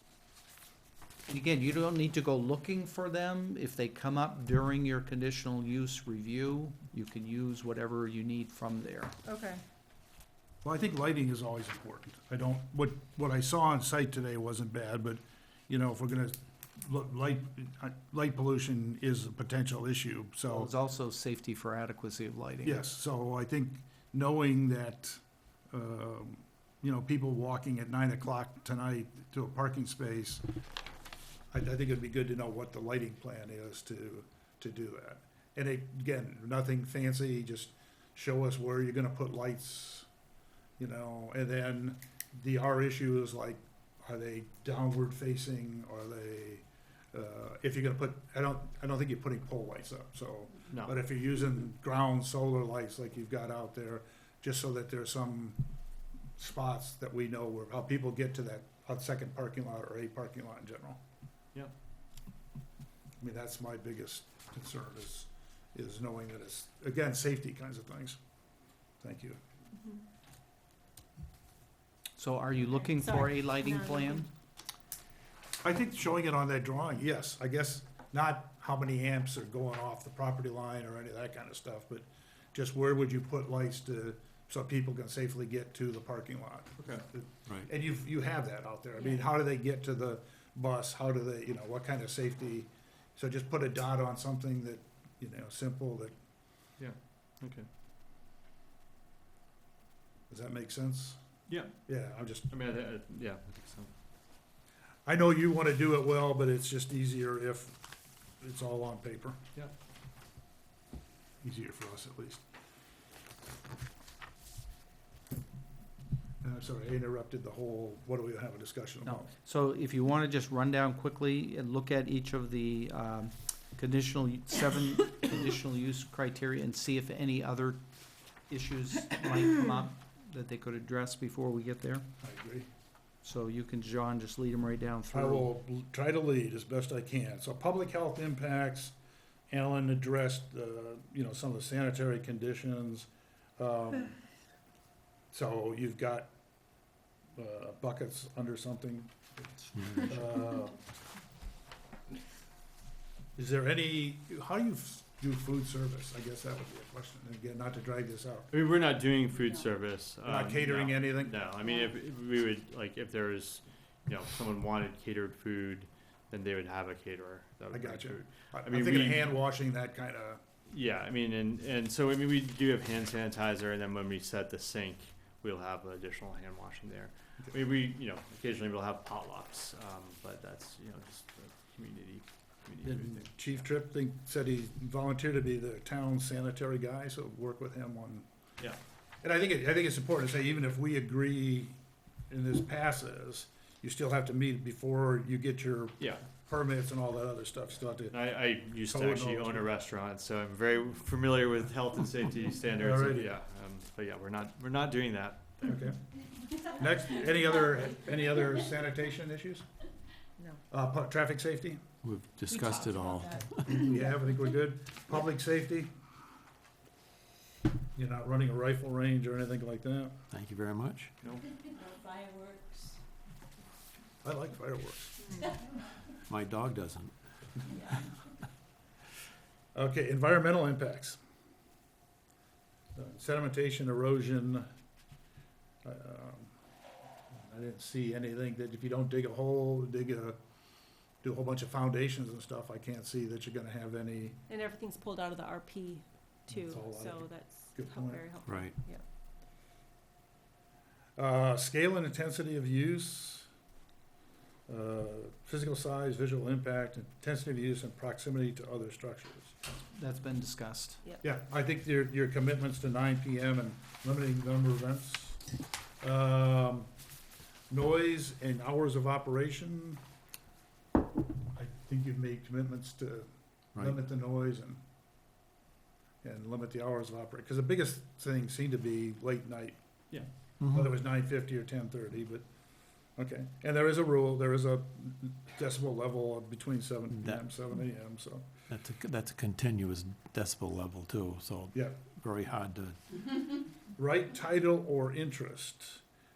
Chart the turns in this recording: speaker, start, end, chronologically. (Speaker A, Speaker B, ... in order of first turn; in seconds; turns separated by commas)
Speaker A: 1.3-9.2, Speaker B: 9.2-9.6, Speaker C: 10.6-20.7, Speaker A: 20.5-22.8, Speaker C: 22.6-30.4, Speaker C: 31.5-40.1, Speaker C: 40.8-55.6, Speaker C: 56.4-61.0, Speaker C: 63.2-68.2, Speaker C: 69.0-69.4, Speaker A: 72.2-74.3, Speaker B: 72.7-74.2, Speaker C: 75.6-96.2, Speaker D: 86.8-87.0, Speaker B: 89.0-89.2, Speaker D: 96.8-97.7, Speaker C: 100.3-101.2, Speaker D: 101.5-101.8, Speaker C: 101.9-102.5, Speaker D: 102.5-103.9, Speaker C: 105.1-107.8, Speaker C: 108.4-109.4, Speaker C: 111.4-112.4, Speaker C: 116.4-119.3, Speaker A: 119.0-127.8, Speaker A: 128.5-132.1, Speaker C: 132.2-132.7, Speaker A: 133.2-135.5, Speaker C: 135.1-138.9, Speaker C: 139.5-144.2, Speaker C: 145.3-146.3, Speaker C: 147.4-149.2, Speaker E: 149.7-150.2, Speaker C: 150.0-150.8, Speaker C: 153.4-158.5, Speaker D: 158.5-169.4, Speaker C: 160.2-161.4, Speaker C: 167.7-170.4, Speaker D: 170.7-183.6, Speaker C: 182.8-188.3, Speaker C: 189.2-191.8, Speaker C: 192.3-199.7, Speaker D: 196.0-196.2, Speaker D: 198.1-205.8, Speaker C: 202.7-203.4, Speaker C: 205.6-206.0, Speaker C: 206.6-209.7, Speaker C: 210.7-211.8, Speaker E: 212.0-213.8, Speaker B: 212.5-214.1, Speaker C: 213.6-215.9, Speaker C: 218.0-220.2, Speaker E: 220.3-221.1, Speaker B: 221.7-223.0, Speaker C: 224.2-225.4, Speaker E: 226.3-227.1, Speaker C: 229.7-231.2, Speaker C: 232.9-234.7, Speaker C: 235.8-236.5, Speaker C: 237.3-240.4, Speaker C: 241.2-244.4, Speaker B: 244.5-249.0, Speaker C: 246.5-248.3, Speaker E: 248.4-248.8, Speaker C: 251.2-253.5, Speaker C: 254.7-259.5, Speaker A: 259.9-261.0, Speaker C: 261.2-265.4, Speaker C: 266.0-266.9, Speaker C: 267.7-270.0, Speaker C: 271.5-274.8, Speaker C: 276.2-279.8, Speaker E: 280.6-280.9, Speaker C: 280.7-282.4, Speaker C: 283.2-288.5, Speaker E: 287.1-287.4, Speaker E: 288.7-293.0, Speaker C: 291.7-292.0, Speaker C: 294.0-296.0